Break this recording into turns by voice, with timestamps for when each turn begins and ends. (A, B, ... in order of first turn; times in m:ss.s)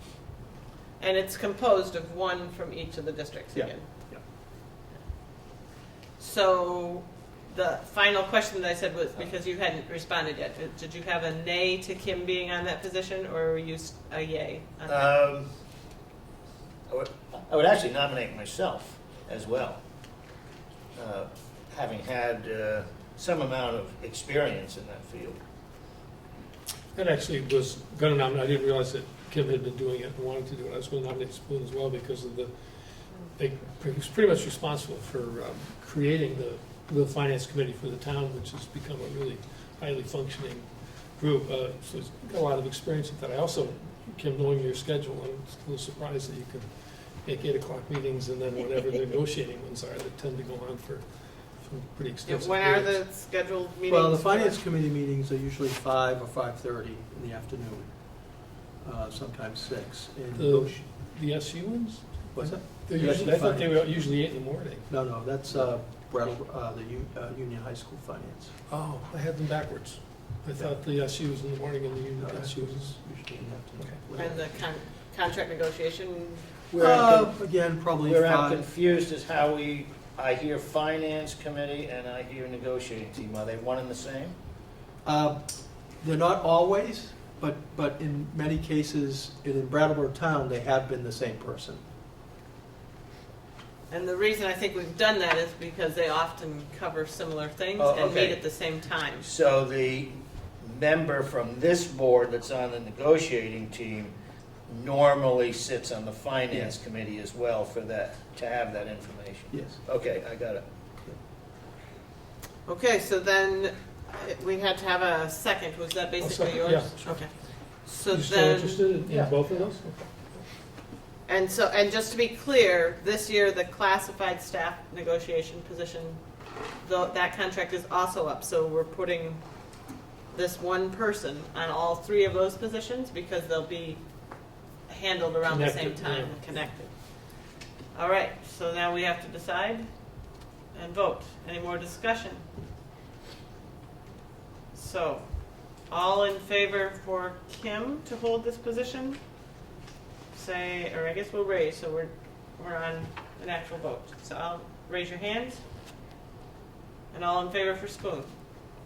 0:01.0-0:03.9 A
0:03.5-0:04.2 B
0:06.2-0:15.1 A
0:14.9-0:15.5 C
0:16.9-0:19.8 C
0:21.0-0:25.4 C
0:26.9-0:32.5 D
0:33.4-0:46.7 D
0:47.2-0:51.0 D
0:51.6-0:53.0 D
0:52.2-0:54.6 A
0:53.9-0:57.9 B
0:58.8-1:00.8 B
1:00.3-1:04.9 D
1:02.3-1:03.9 B
1:04.9-1:08.5 B
1:08.7-1:13.0 D
1:12.2-1:14.6 B
1:14.2-1:17.2 A
1:16.7-1:18.7 B
1:16.8-1:17.3 C
1:18.0-1:24.3 C
1:25.0-1:25.4 B
1:26.0-1:31.8 B
1:33.9-1:39.3 A
1:37.8-1:38.4 C
1:39.2-1:44.1 C
1:44.7-1:50.6 C
1:49.5-1:49.8 B
1:52.6-1:58.9 A
1:56.2-1:57.2 D
1:58.1-2:00.4 D
1:59.1-1:59.3 B
2:01.2-2:06.2 A
2:06.8-2:09.4 A
2:10.3-2:14.0 A
2:14.9-2:17.0 A
2:15.5-2:16.4 D
2:17.9-2:19.9 A
2:20.7-2:22.4 A
2:24.7-2:25.2 A
2:25.9-2:29.2 A
2:30.3-2:35.6 A
2:37.1-2:38.3 A